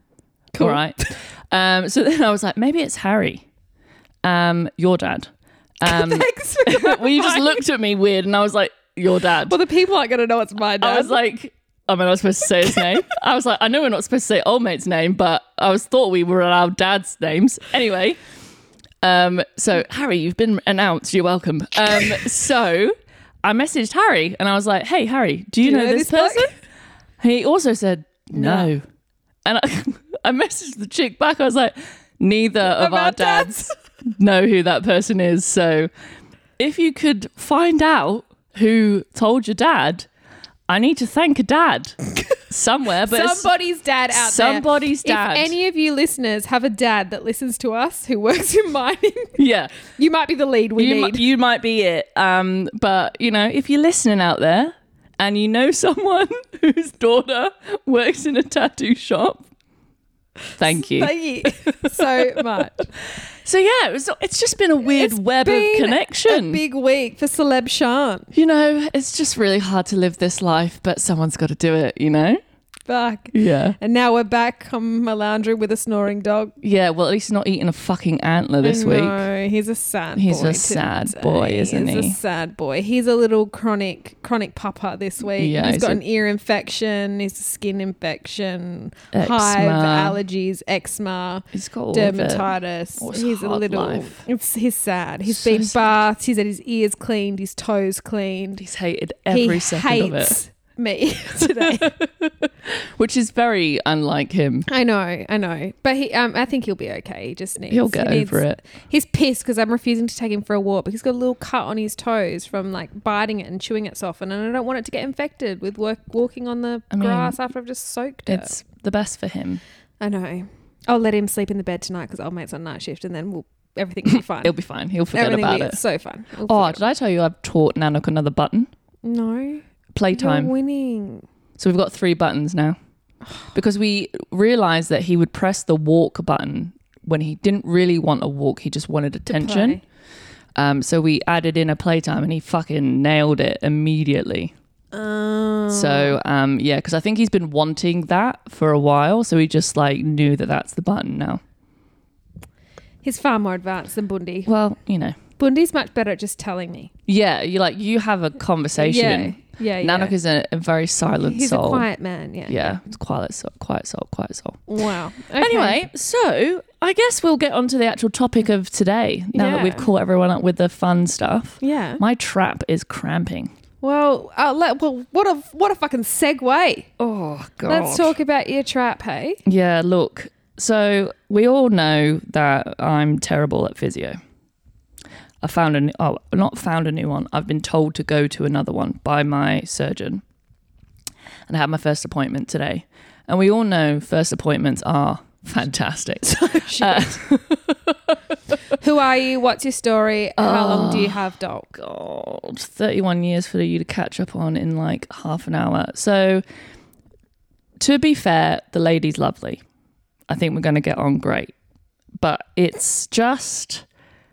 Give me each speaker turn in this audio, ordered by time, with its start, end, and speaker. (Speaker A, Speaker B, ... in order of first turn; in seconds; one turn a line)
Speaker A: 0.6-1.1
Speaker B: 0.6-3.5
Speaker B: 4.2-9.6
Speaker A: 5.8-7.6
Speaker A: 9.5-11.2
Speaker B: 10.8-18.2
Speaker B: 19.0-26.5
Speaker A: 25.6-26.5
Speaker B: 27.2-28.8
Speaker A: 28.3-28.7
Speaker B: 29.4-35.9
Speaker A: 32.6-33.7
Speaker B: 36.6-40.1
Speaker B: 40.7-43.5
Speaker A: 43.1-51.2
Speaker B: 44.1-45.6
Speaker B: 49.4-49.7
Speaker B: 50.8-59.5
Speaker B: 60.6-62.4
Speaker A: 60.7-62.9
Speaker B: 63.4-66.6
Speaker A: 65.0-68.3
Speaker B: 68.3-72.4
Speaker A: 72.9-76.5
Speaker B: 73.3-73.8
Speaker B: 76.6-79.2
Speaker A: 78.6-98.6
Speaker B: 80.2-82.2
Speaker B: 85.4-86.0
Speaker B: 89.1-90.2
Speaker B: 91.5-94.2
Speaker B: 95.3-96.0
Speaker B: 98.6-100.4
Speaker A: 99.3-102.1
Speaker B: 101.4-101.9
Speaker B: 103.0-104.7
Speaker A: 104.7-118.5
Speaker B: 107.7-108.6
Speaker B: 116.9-117.4
Speaker B: 118.3-119.6
Speaker A: 120.0-124.6
Speaker B: 124.4-125.8
Speaker A: 125.1-126.8
Speaker B: 126.5-128.7
Speaker A: 129.0-131.2
Speaker B: 129.9-130.5
Speaker B: 131.6-132.8
Speaker B: 133.5-139.8
Speaker A: 139.3-139.8
Speaker B: 140.6-144.5
Speaker A: 144.9-146.2
Speaker B: 145.7-151.4
Speaker A: 153.0-154.5
Speaker B: 154.5-155.2
Speaker A: 155.4-156.9
Speaker B: 157.1-161.9
Speaker A: 158.8-160.2
Speaker A: 161.2-162.8
Speaker B: 162.5-164.7
Speaker A: 164.7-165.8
Speaker B: 165.4-173.5
Speaker A: 169.3-169.9
Speaker A: 171.6-172.0
Speaker A: 173.8-176.9
Speaker B: 177.0-178.2
Speaker A: 177.7-179.4
Speaker B: 179.5-184.2
Speaker B: 185.4-190.2
Speaker B: 191.5-198.2
Speaker A: 196.3-197.2
Speaker A: 198.8-201.7
Speaker B: 200.4-206.4
Speaker B: 207.8-209.6
Speaker B: 210.3-211.5
Speaker B: 212.2-213.9